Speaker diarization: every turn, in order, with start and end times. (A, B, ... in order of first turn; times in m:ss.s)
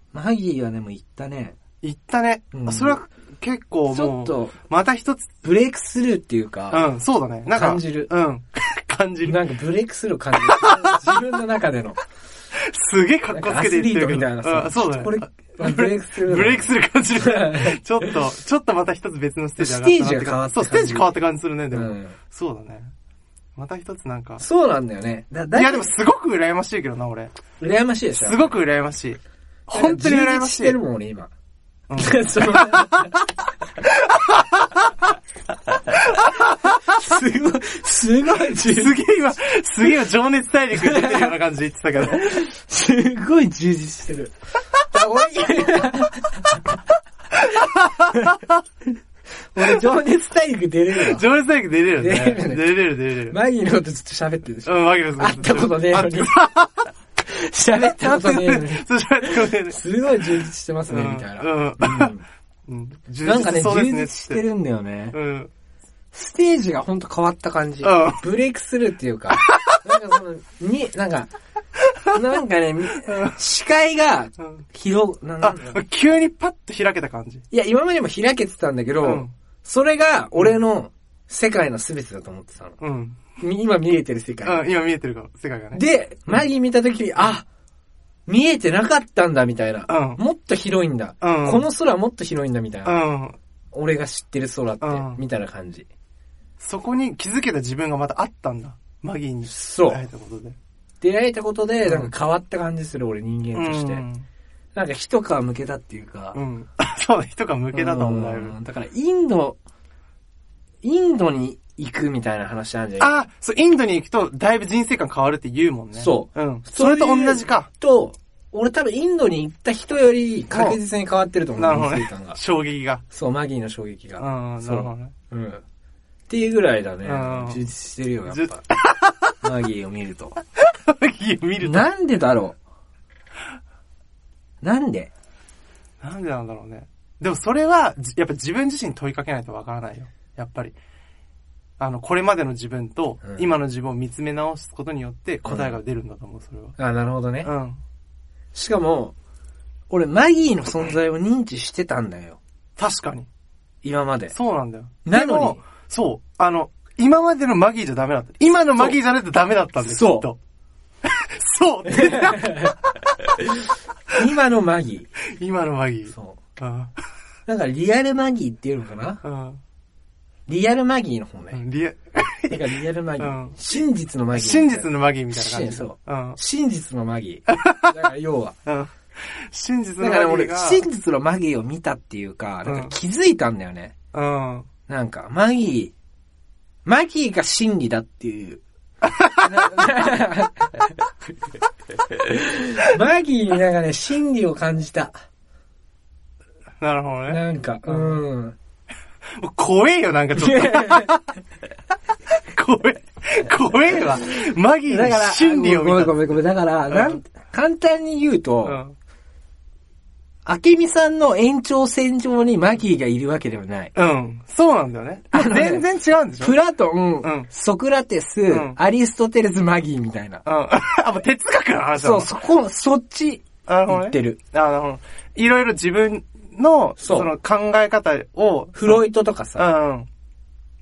0:00.1-0:01.6 A
0:01.8-0:05.4 B
0:02.5-0:03.0 A
0:03.9-0:04.6 A
0:05.4-0:06.9 A
0:06.7-0:09.5 B
0:07.5-0:08.1 A
0:09.2-0:12.0 A
0:10.4-0:11.0 B
0:12.7-0:22.9 B
0:13.3-0:18.1 A
0:19.6-0:21.2 A
0:21.7-0:22.2 A
0:23.6-0:24.4 B
0:24.4-0:25.9 A
0:25.6-0:27.4 B
0:27.6-0:28.6 A
0:28.1-0:30.8 B
0:29.7-0:31.3 A
0:31.9-0:33.1 B
0:32.0-0:33.2 A
0:34.1-0:34.8 B
0:36.0-0:36.8 B
0:36.9-0:39.0 A
0:38.4-0:42.3 B
0:40.8-0:41.3 A
0:42.1-0:44.3 A
0:44.9-0:46.8 A
0:47.6-0:48.5 B
0:49.5-0:51.2 A
0:51.0-0:53.4 B
0:52.0-0:52.8 A
0:53.3-0:56.4 A
0:54.6-0:56.9 B
0:57.2-1:02.2 A
0:57.7-1:00.3 B
1:00.9-1:02.1 B
1:02.7-1:04.4 B
1:03.2-1:05.2 A
1:05.1-1:05.5 B
1:06.1-1:11.3 A
1:07.8-1:08.2 B
1:09.4-1:09.8 B
1:12.1-1:15.8 A
1:13.1-1:13.4 B
1:14.4-1:14.6 B
1:15.4-1:17.4 B
1:17.5-1:22.8 A
1:19.0-1:19.3 B
1:20.4-1:20.6 B
1:22.8-1:23.2 B
1:23.4-1:24.7 A
1:24.4-1:26.5 B
1:25.7-1:27.5 A
1:28.3-1:33.0 A
1:29.9-1:30.2 B
1:31.2-1:31.7 B
1:32.8-1:33.4 B
1:33.7-1:35.9 A
1:34.8-1:35.2 B
1:36.6-1:40.6 B
1:39.5-1:40.0 A
1:41.0-1:44.0 A
1:41.8-1:42.1 B
1:43.6-1:44.3 B
1:44.8-1:46.4 A
1:46.4-1:48.6 B
1:47.7-1:49.6 A
1:50.8-1:53.2 A
1:53.0-1:57.7 B
1:56.0-2:02.4 A
2:00.5-2:00.8 B
2:01.6-2:03.0 B
2:03.1-2:05.6 A
2:04.2-2:05.1 B
2:06.3-2:08.7 A
2:07.0-2:07.7 B
2:08.3-2:09.3 B
2:09.4-2:10.4 A
2:10.7-2:11.9 B
2:11.6-2:12.6 A
2:14.6-2:15.1 A
2:16.0-2:20.8 B
2:21.8-2:26.8 B
2:23.2-2:23.5 A
2:25.5-2:25.8 A
2:26.8-2:27.5 A
2:27.4-2:27.8 B
2:28.5-2:29.2 A
2:29.9-2:32.4 A
2:32.8-2:33.3 B
2:33.8-2:34.4 A
2:34.3-2:40.4 B
2:35.0-2:35.6 A
2:39.8-2:40.3 A
2:41.0-2:42.7 B
2:41.9-2:42.8 A
2:43.4-2:43.6 A
2:44.1-2:45.1 A
2:45.4-2:46.9 B
2:46.1-2:46.4 A
2:47.5-2:49.2 A
2:49.2-2:49.6 B
2:50.5-2:51.6 A
2:51.5-2:53.8 B
2:52.5-2:58.6 A
2:54.3-2:56.4 B
2:57.5-2:57.9 B
2:58.7-3:00.8 B
3:00.0-3:04.0 A
3:02.6-3:02.9 B
3:04.1-3:04.7 B
3:04.9-3:05.9 A
3:06.8-3:08.6 A
3:09.0-3:09.7 B
3:09.4-3:11.1 A
3:12.1-3:15.2 A
3:16.8-3:18.2 B
3:17.3-3:18.6 A
3:19.4-3:21.2 B
3:20.4-3:21.2 A
3:22.5-3:26.3 B
3:24.9-3:28.8 A
3:26.9-3:27.2 B
3:28.6-3:29.0 B
3:30.4-3:33.9 A
3:34.0-3:36.6 B
3:35.3-3:35.9 A
3:36.4-3:40.4 A
3:37.2-3:37.5 B
3:38.5-3:38.8 B
3:40.4-3:42.3 B
3:42.0-3:44.4 A
3:43.7-3:50.1 B
3:47.0-3:47.3 A
3:48.7-3:49.7 A